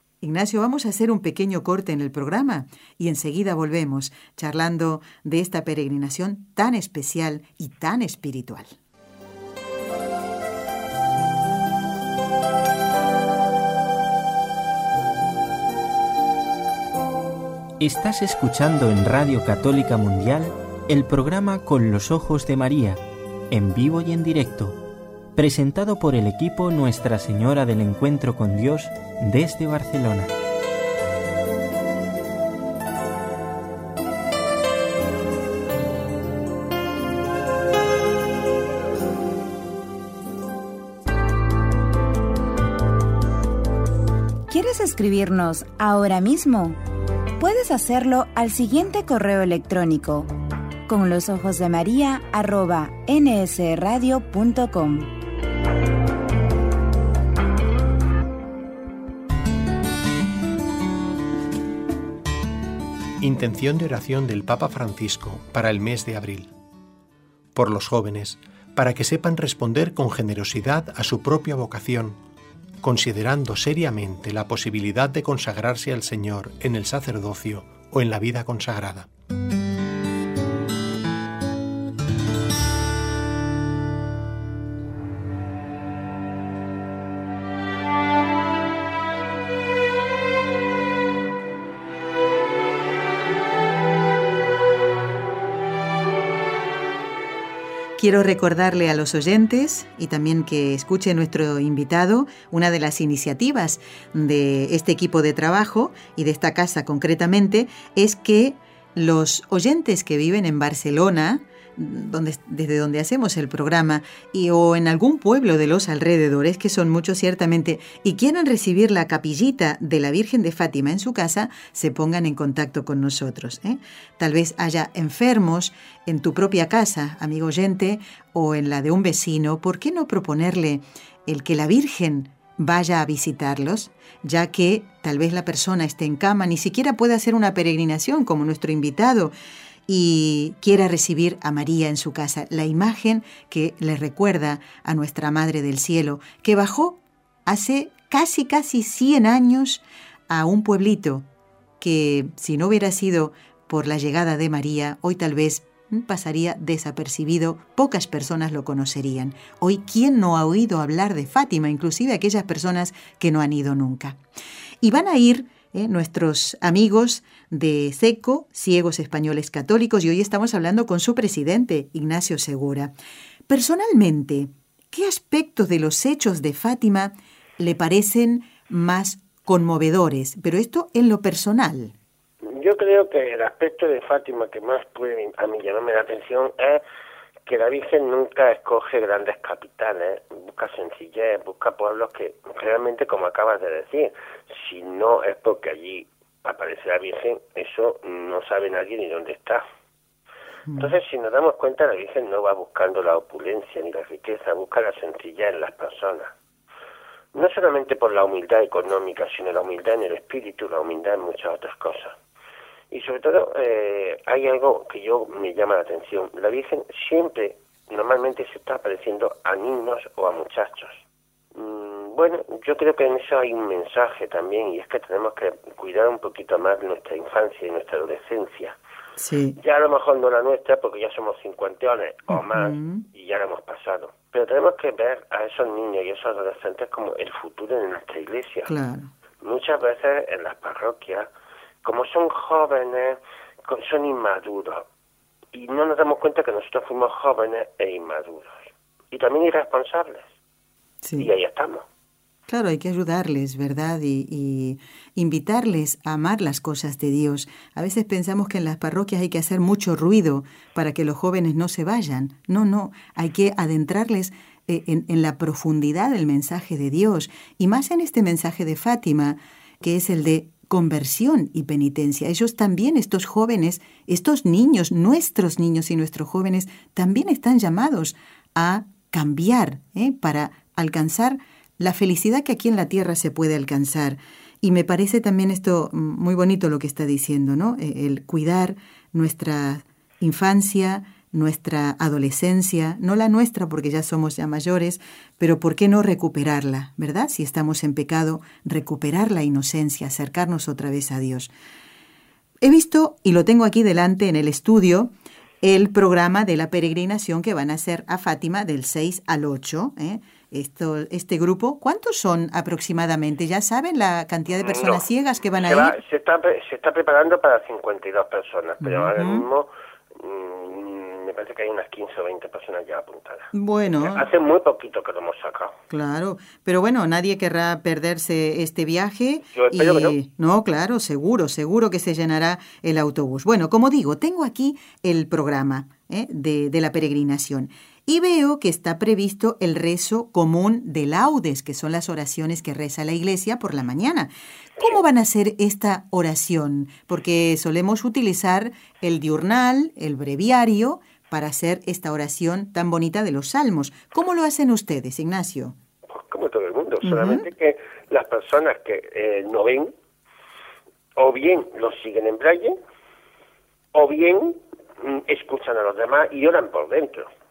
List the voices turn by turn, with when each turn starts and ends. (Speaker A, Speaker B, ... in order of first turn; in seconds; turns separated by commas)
Speaker A: 0.2-8.8, Speaker B: 17.8-23.0, Speaker B: 23.5-24.8, Speaker B: 25.4-30.3, Speaker C: 44.5-46.8, Speaker C: 47.4-50.3, Speaker C: 50.9-55.1, Speaker D: 63.2-66.5, Speaker D: 67.5-72.2, Speaker D: 72.8-79.1, Speaker A: 98.0-139.3, Speaker A: 139.9-151.3, Speaker A: 151.8-164.2, Speaker A: 164.8-172.9, Speaker A: 173.5-181.9, Speaker E: 182.4-186.8, Speaker E: 187.5-199.6, Speaker A: 200.7-200.9, Speaker E: 200.8-206.3, Speaker E: 207.3-212.2, Speaker E: 212.9-228.8, Speaker A: 229.2-229.6, Speaker E: 229.6-238.7, Speaker A: 232.3-233.0, Speaker A: 238.7-239.1, Speaker E: 239.4-241.3, Speaker E: 241.8-244.9, Speaker E: 245.5-250.3, Speaker A: 251.0-251.3, Speaker E: 251.2-251.8, Speaker A: 252.5-301.5, Speaker A: 302.6-316.0, Speaker E: 314.6-315.0, Speaker E: 315.6-325.8, Speaker A: 318.8-319.5, Speaker A: 323.5-324.3, Speaker A: 325.9-355.8, Speaker E: 329.5-330.2, Speaker E: 356.1-359.9, Speaker A: 357.0-357.4, Speaker E: 361.2-362.8, Speaker E: 363.9-367.3